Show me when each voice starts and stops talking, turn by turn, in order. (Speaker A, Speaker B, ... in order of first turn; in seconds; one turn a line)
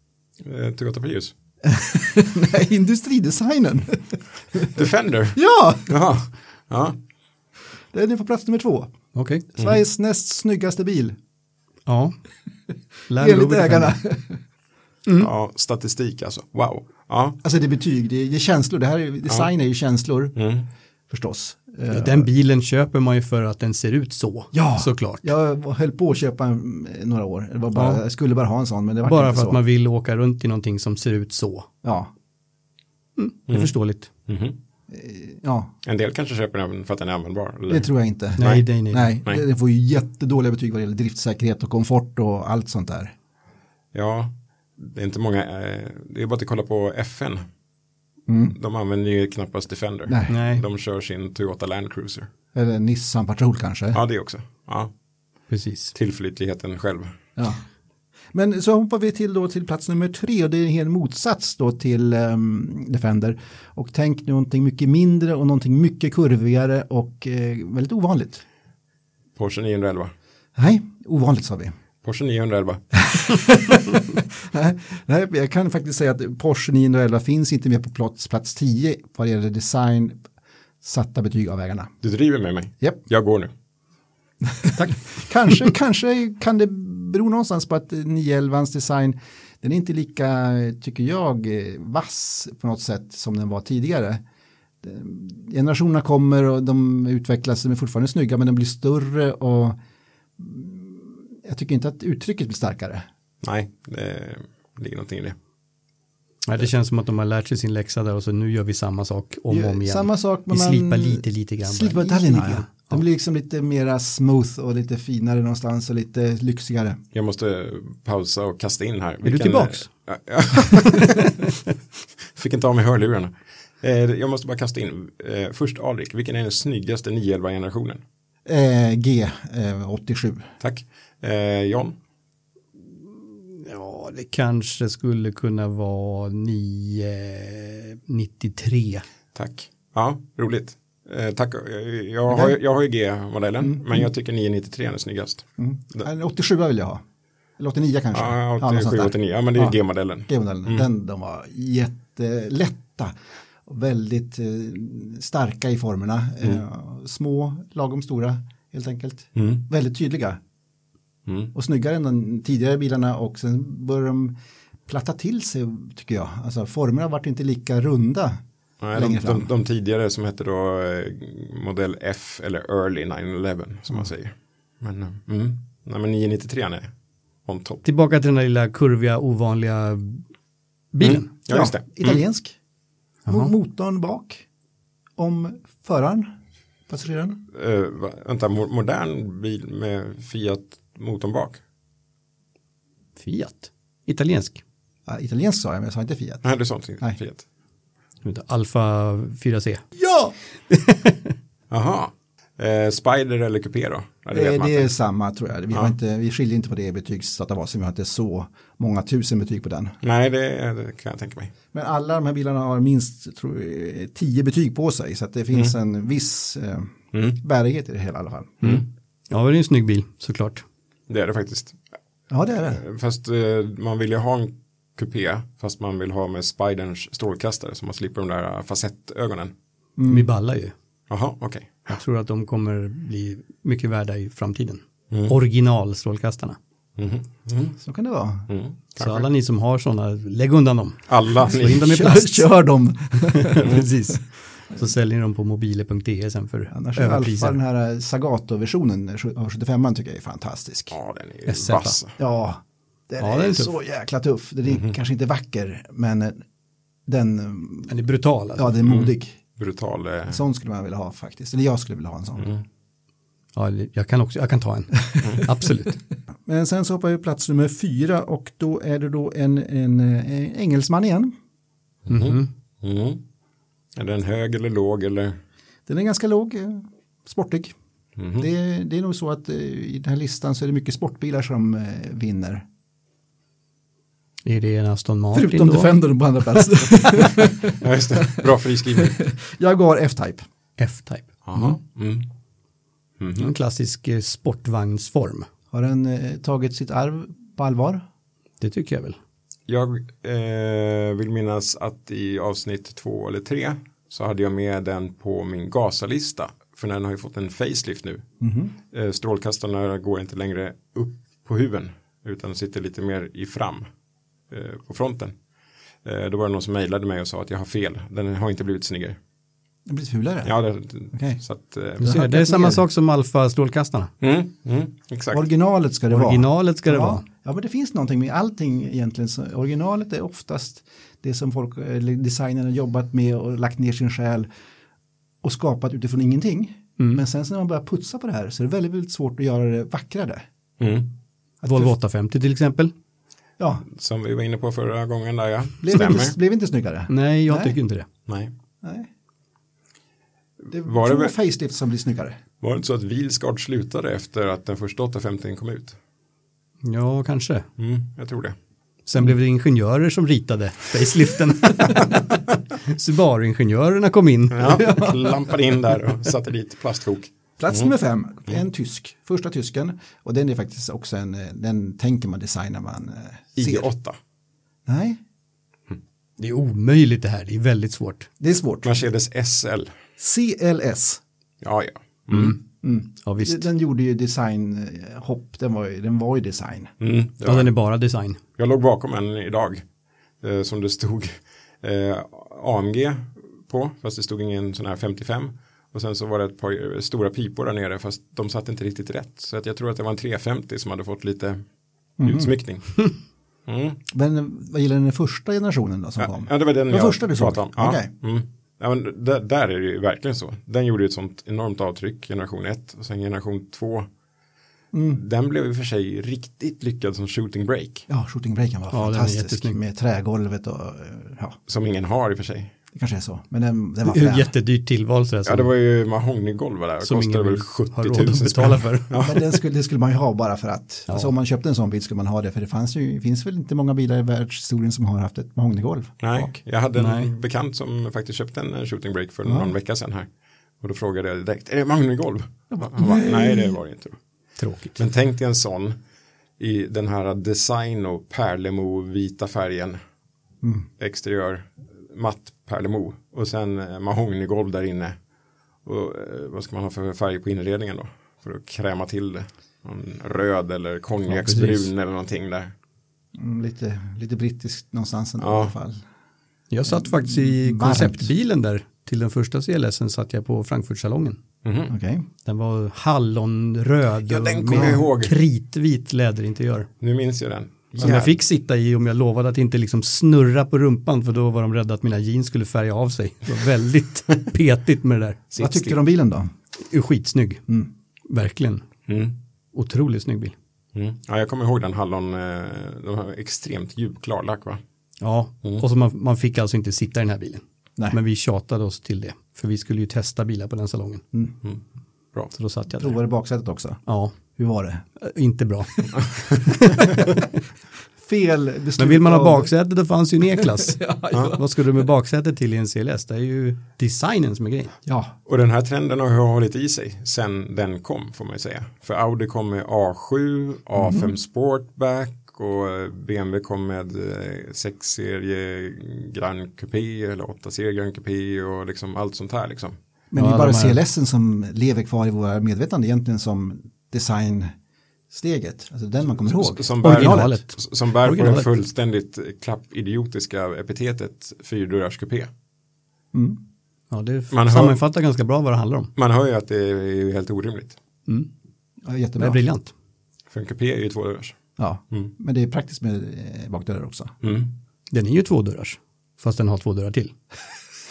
Speaker A: 0.4-1.3
Speaker B: 1.6-4.8
Speaker A: 4.7-7.0
Speaker B: 5.3-6.0
Speaker B: 7.9-8.9
Speaker C: 9.2-9.5
Speaker B: 9.5-11.2
Speaker C: 11.9-12.2
Speaker C: 13.1-14.0
Speaker B: 13.1-14.4
Speaker A: 15.2-17.4
Speaker B: 17.4-20.4
Speaker A: 20.4-20.7
Speaker B: 21.1-22.3
Speaker C: 21.9-25.3
Speaker B: 24.5-29.6
Speaker C: 27.8-28.0
Speaker C: 29.1-31.7
Speaker B: 31.8-32.1
Speaker C: 33.2-34.1
Speaker A: 34.3-34.6
Speaker B: 34.9-35.7
Speaker A: 35.8-38.6
Speaker B: 37.7-43.1
Speaker C: 38.4-39.1
Speaker A: 43.9-47.5
Speaker B: 48.3-48.6
Speaker A: 48.5-52.3
Speaker B: 50.1-50.4
Speaker C: 50.3-50.6
Speaker B: 52.5-54.0
Speaker A: 53.9-54.9
Speaker C: 55.5-55.9
Speaker A: 55.9-57.1
Speaker B: 57.4-57.6
Speaker B: 58.3-68.4
Speaker A: 69.4-70.1
Speaker B: 70.6-71.7
Speaker A: 72.0-72.8
Speaker B: 73.0-80.2
Speaker B: 80.8-81.9
Speaker A: 82.0-83.5
Speaker B: 84.5-94.2
Speaker B: 94.8-99.8
Speaker B: 100.4-103.0
Speaker A: 103.4-105.4
Speaker C: 106.5-113.0
Speaker B: 109.5-117.0
Speaker A: 117.1-121.4
Speaker C: 119.2-119.9
Speaker C: 120.7-121.5
Speaker A: 122.3-128.0
Speaker B: 128.4-130.5
Speaker A: 130.6-131.9
Speaker C: 133.5-139.1
Speaker A: 139.3-146.1
Speaker B: 142.3-142.6
Speaker B: 143.6-144.1
Speaker B: 145.6-147.0
Speaker B: 147.6-153.1
Speaker A: 148.1-150.9
Speaker B: 153.7-160.4
Speaker A: 159.4-159.7
Speaker A: 161.3-161.5
Speaker B: 161.5-164.3
Speaker B: 164.9-168.4
Speaker A: 168.8-176.9
Speaker B: 168.9-169.5
Speaker A: 177.4-177.8
Speaker C: 177.8-180.2
Speaker C: 180.9-181.3
Speaker A: 181.0-182.2
Speaker B: 181.5-182.6
Speaker B: 183.3-184.4
Speaker B: 185.2-186.3
Speaker B: 186.9-187.4
Speaker A: 187.5-191.6
Speaker C: 193.2-194.6
Speaker B: 195.1-196.5
Speaker A: 196.4-197.4
Speaker C: 198.2-199.8
Speaker B: 199.9-200.3
Speaker C: 200.7-201.2
Speaker A: 201.7-204.9
Speaker B: 204.3-210.0
Speaker A: 210.0-211.5
Speaker B: 211.7-218.8
Speaker A: 217.1-217.4
Speaker C: 218.6-220.6
Speaker A: 221.1-221.8
Speaker B: 222.3-222.8
Speaker A: 222.6-229.5
Speaker B: 230.0-230.3
Speaker C: 230.1-230.7
Speaker A: 231.1-232.0
Speaker C: 231.9-236.6
Speaker A: 237.0-237.8
Speaker B: 237.8-238.5
Speaker A: 238.5-239.3
Speaker C: 239.0-242.5
Speaker A: 241.1-241.9
Speaker B: 241.7-243.8
Speaker C: 243.2-247.6
Speaker B: 246.7-250.9
Speaker A: 250.9-252.2
Speaker C: 251.5-252.0
Speaker B: 252.2-256.4
Speaker C: 253.2-253.7
Speaker B: 257.1-257.9
Speaker C: 257.9-258.7
Speaker B: 258.6-259.4
Speaker A: 258.8-260.4
Speaker B: 260.3-262.5
Speaker A: 262.4-262.6
Speaker C: 263.6-266.0
Speaker B: 266.5-271.4
Speaker A: 272.1-273.2
Speaker C: 272.1-272.5
Speaker A: 274.0-275.4
Speaker B: 275.9-277.8
Speaker A: 278.2-278.5
Speaker B: 278.4-282.6
Speaker C: 284.4-285.9
Speaker B: 285.3-290.4
Speaker A: 287.5-289.2
Speaker C: 290.8-291.3
Speaker A: 291.4-292.3
Speaker A: 293.2-293.5
Speaker C: 293.4-295.5
Speaker B: 295.7-298.0
Speaker C: 298.6-299.2
Speaker A: 299.7-308.2
Speaker B: 308.4-308.7
Speaker A: 308.9-313.9
Speaker A: 314.5-315.4
Speaker A: 316.0-319.2
Speaker B: 319.9-320.5
Speaker A: 320.4-322.2
Speaker B: 321.1-321.4
Speaker B: 322.0-322.8
Speaker C: 322.0-324.1
Speaker A: 324.2-325.5
Speaker B: 325.3-334.5
Speaker C: 326.1-327.2
Speaker B: 335.4-340.4
Speaker A: 340.8-341.1
Speaker B: 341.6-341.9
Speaker C: 341.7-342.9
Speaker B: 343.6-343.9
Speaker A: 343.9-346.4
Speaker B: 345.8-347.8
Speaker C: 347.1-348.1
Speaker A: 348.3-348.5
Speaker B: 348.8-349.1
Speaker A: 350.6-351.4
Speaker B: 350.7-352.4
Speaker A: 352.6-356.0
Speaker C: 356.8-357.7
Speaker A: 357.8-358.6
Speaker C: 359.1-365.2
Speaker A: 364.5-367.9
Speaker B: 367.6-373.9
Speaker A: 373.6-374.2
Speaker B: 374.9-375.2
Speaker C: 376.4-378.3
Speaker B: 378.4-379.0
Speaker A: 378.8-379.9
Speaker B: 380.2-381.2
Speaker A: 381.6-382.6
Speaker C: 382.3-382.6
Speaker B: 382.8-386.9
Speaker C: 383.2-383.7
Speaker A: 387.0-387.7
Speaker C: 387.4-388.4
Speaker A: 388.6-389.8
Speaker A: 390.4-401.6
Speaker A: 402.2-403.1
Speaker B: 402.2-402.5
Speaker A: 403.7-404.0
Speaker B: 404.1-408.1
Speaker A: 406.2-414.1
Speaker B: 414.9-415.2
Speaker A: 415.1-418.1
Speaker B: 418.1-421.6
Speaker C: 418.9-419.8
Speaker A: 421.7-422.7
Speaker B: 422.9-424.5
Speaker C: 424.1-425.7
Speaker A: 425.5-429.4
Speaker C: 427.0-429.2
Speaker B: 429.2-436.6
Speaker A: 436.2-440.3
Speaker C: 437.0-437.3
Speaker B: 439.4-439.7
Speaker A: 440.8-444.2
Speaker B: 442.7-443.8
Speaker C: 444.6-445.0
Speaker A: 444.9-446.0
Speaker A: 446.6-450.0
Speaker B: 450.6-450.9
Speaker A: 451.0-455.2
Speaker A: 455.9-462.7
Speaker C: 461.3-461.9
Speaker B: 463.4-466.0
Speaker A: 465.4-465.8
Speaker C: 466.7-471.4
Speaker B: 466.9-468.3
Speaker A: 471.6-471.9
Speaker B: 471.9-472.3
Speaker C: 472.5-476.9
Speaker A: 474.3-475.3
Speaker B: 474.7-475.0
Speaker A: 477.0-478.4
Speaker C: 478.0-485.4
Speaker A: 485.5-486.0
Speaker B: 485.6-486.5
Speaker C: 486.9-487.6
Speaker C: 488.3-488.9
Speaker A: 489.1-489.4
Speaker C: 489.7-490.6
Speaker A: 490.9-494.8
Speaker C: 495.2-501.2
Speaker C: 502.5-503.2
Speaker B: 503.0-504.0
Speaker C: 504.1-504.3
Speaker B: 504.6-505.0
Speaker C: 505.2-507.1
Speaker B: 508.2-509.7
Speaker C: 509.0-514.9
Speaker B: 510.6-511.6
Speaker A: 511.3-511.6
Speaker B: 515.1-515.4
Speaker A: 515.5-530.0
Speaker B: 521.0-521.3
Speaker B: 530.3-534.7
Speaker C: 530.4-531.0
Speaker B: 535.3-537.5
Speaker A: 536.4-542.5
Speaker C: 537.0-538.7
Speaker B: 543.3-543.6
Speaker C: 544.1-546.1
Speaker A: 544.5-545.0
Speaker A: 546.2-548.0
Speaker B: 549.0-549.6
Speaker C: 549.4-549.9
Speaker A: 550.5-551.6
Speaker B: 551.8-554.4
Speaker A: 554.4-554.7
Speaker C: 555.1-557.3